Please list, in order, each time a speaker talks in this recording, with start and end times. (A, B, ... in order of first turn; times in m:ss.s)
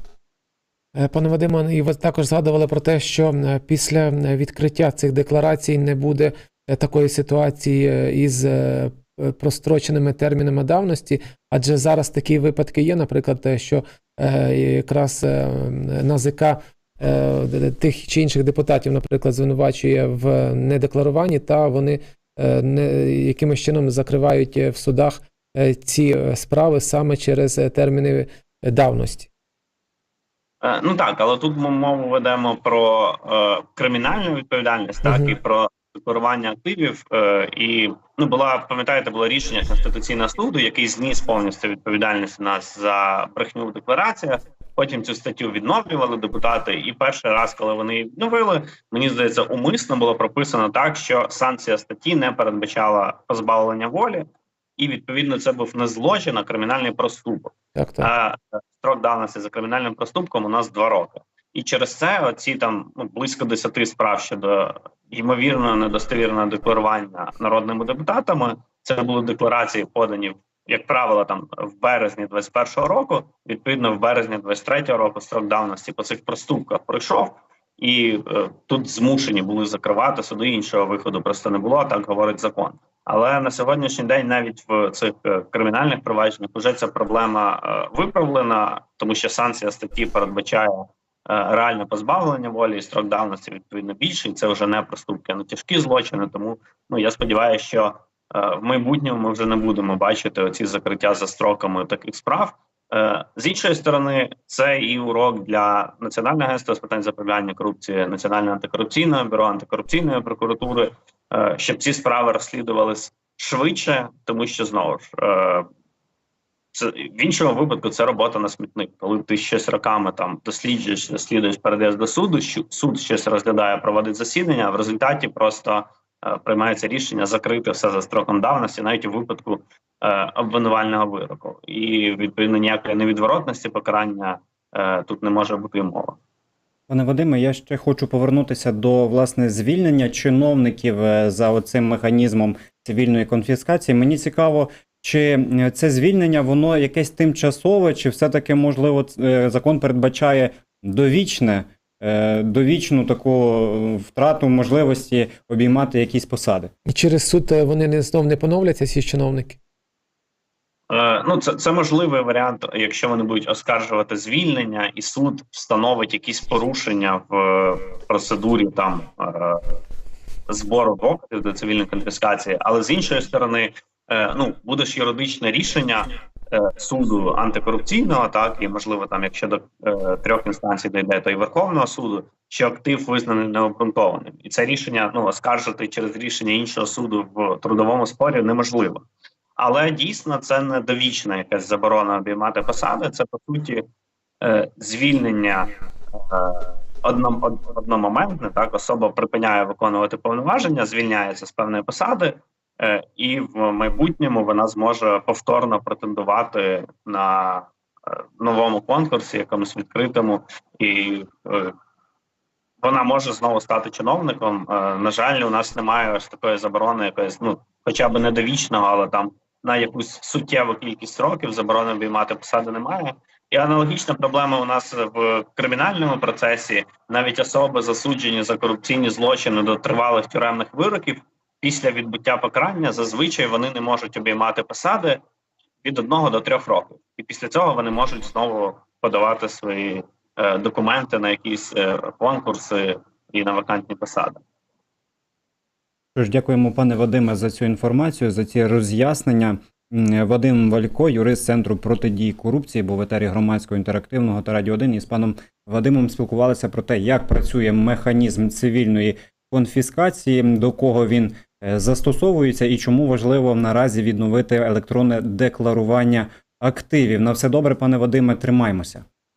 0:01.0-0:29.3 A
0:30.6-0:54.2 B
0:35.0-0:35.3 A
0:54.8-1:55.7 B
0:57.8-0:58.1 A
1:56.7-2:16.2 B
2:16.9-2:36.7 C
2:36.9-2:39.6 A
2:40.9-2:49.7 B
2:50.5-3:09.0 B
3:09.6-3:13.8 B
3:14.4-3:15.7 B
3:16.3-3:31.7 B
3:32.8-3:55.2 B
3:55.8-4:04.4 B
4:06.1-4:29.0 C